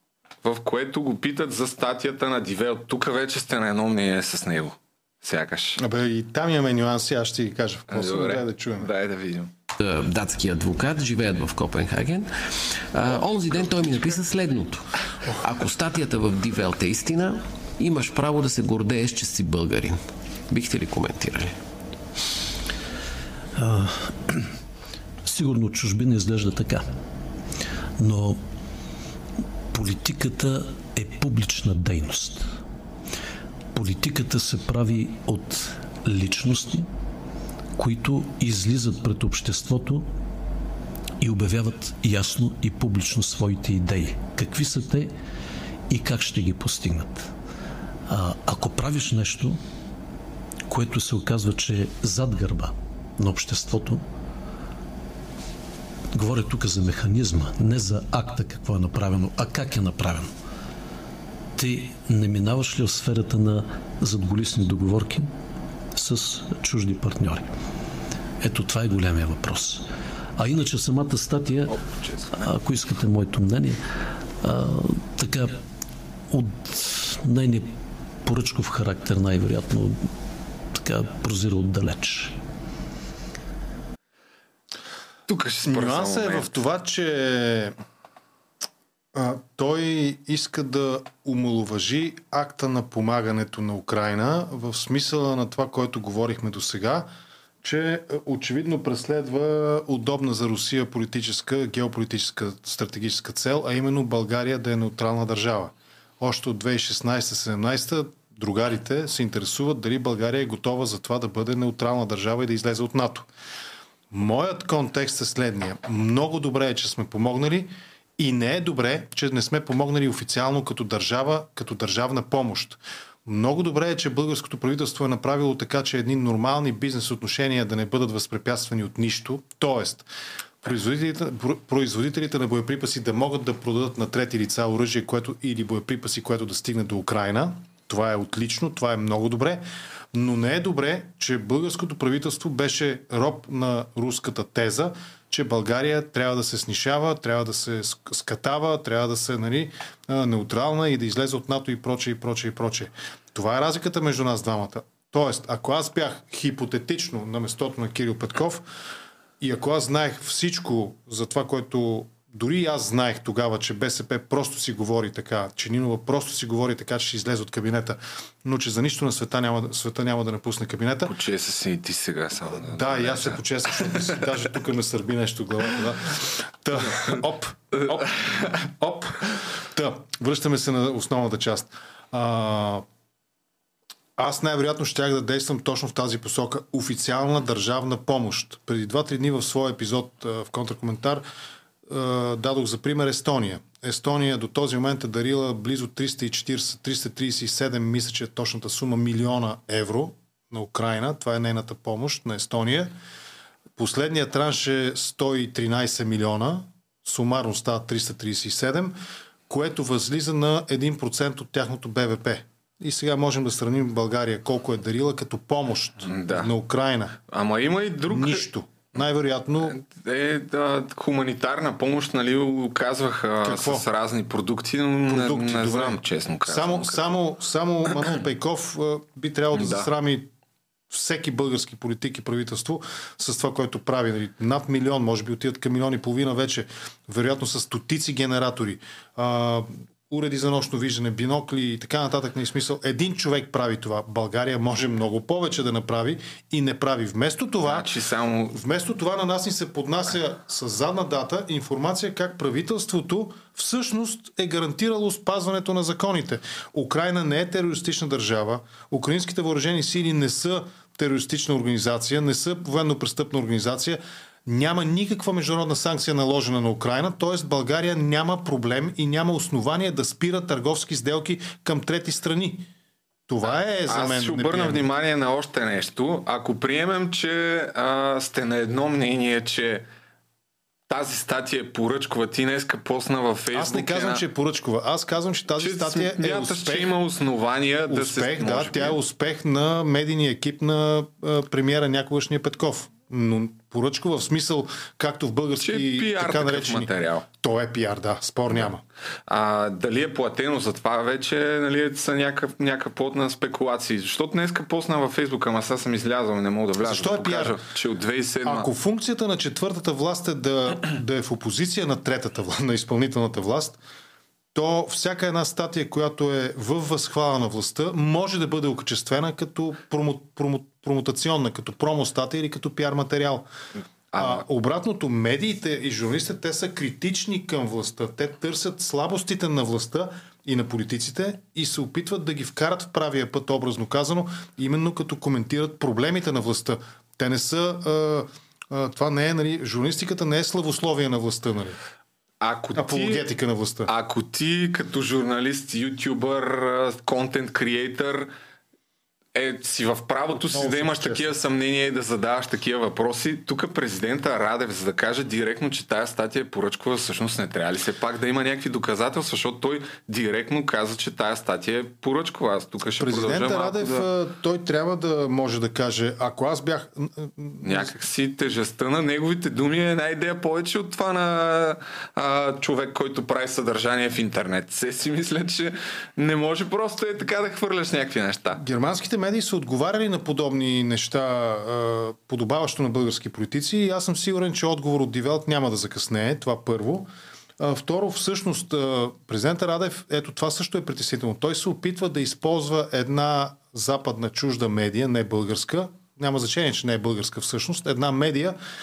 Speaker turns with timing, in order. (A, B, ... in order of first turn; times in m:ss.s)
0:00.4-0:05.8 A
0:05.8-0:08.9 B
0:07.9-0:09.5 A
0:09.8-0:14.8 C
0:15.4-0:21.6 C
0:23.6-0:24.5 D
0:25.2-0:26.9 D
0:28.0-0:28.4 D
0:29.7-0:32.6 D
0:33.7-0:36.9 D
0:37.8-0:40.1 D
0:41.2-0:45.1 D
0:45.9-0:47.3 D
0:48.1-0:49.6 D
0:50.7-0:54.0 D
0:56.1-1:00.3 D
1:01.6-1:05.3 D
1:05.9-1:07.5 D
1:08.4-1:09.8 D
1:10.4-1:11.8 D
1:11.7-1:12.5 A
1:12.4-1:13.8 D
1:14.4-1:15.6 D
1:16.3-1:17.7 D
1:18.2-1:20.1 D
1:20.7-1:22.4 D
1:25.3-1:26.5 A
1:25.7-1:27.8 B
1:29.1-1:37.1 B
1:37.6-1:53.3 B
1:54.1-2:10.1 B
2:10.6-2:38.6 B
2:39.4-2:51.1 B
2:51.1-2:53.4 A
2:52.5-3:02.8 B
3:04.2-3:11.2 B
3:11.9-3:22.9 B
3:23.8-3:29.0 B
3:29.5-3:37.2 B
3:36.0-3:36.5 A
3:37.3-3:38.4 A
3:38.1-3:39.8 B
3:39.7-3:47.1 A
3:43.4-3:43.8 B
3:45.1-3:50.3 B
3:49.6-3:49.9 A
3:50.9-4:07.9 B
4:07.6-4:08.5 A
4:08.5-4:32.7 B
4:33.3-4:34.9 B
4:33.5-4:39.9 A
4:40.9-4:44.2 A
4:43.5-4:47.0 B
4:45.6-4:49.0 A
4:47.9-4:58.8 B
4:55.6-4:57.2 A
4:59.3-5:08.7 A
5:06.8-5:07.6 B
5:08.4-5:13.8 B
5:14.5-5:23.5 B
5:24.1-5:24.4 A
5:24.2-5:41.8 B
5:42.4-5:43.2 A
5:42.8-5:43.9 B
5:43.9-5:48.3 A
5:49.4-6:04.1 A
5:50.4-5:51.4 B
6:03.0-6:07.9 B
6:07.6-6:18.6 A
6:18.6-6:27.1 B
6:27.6-6:38.6 B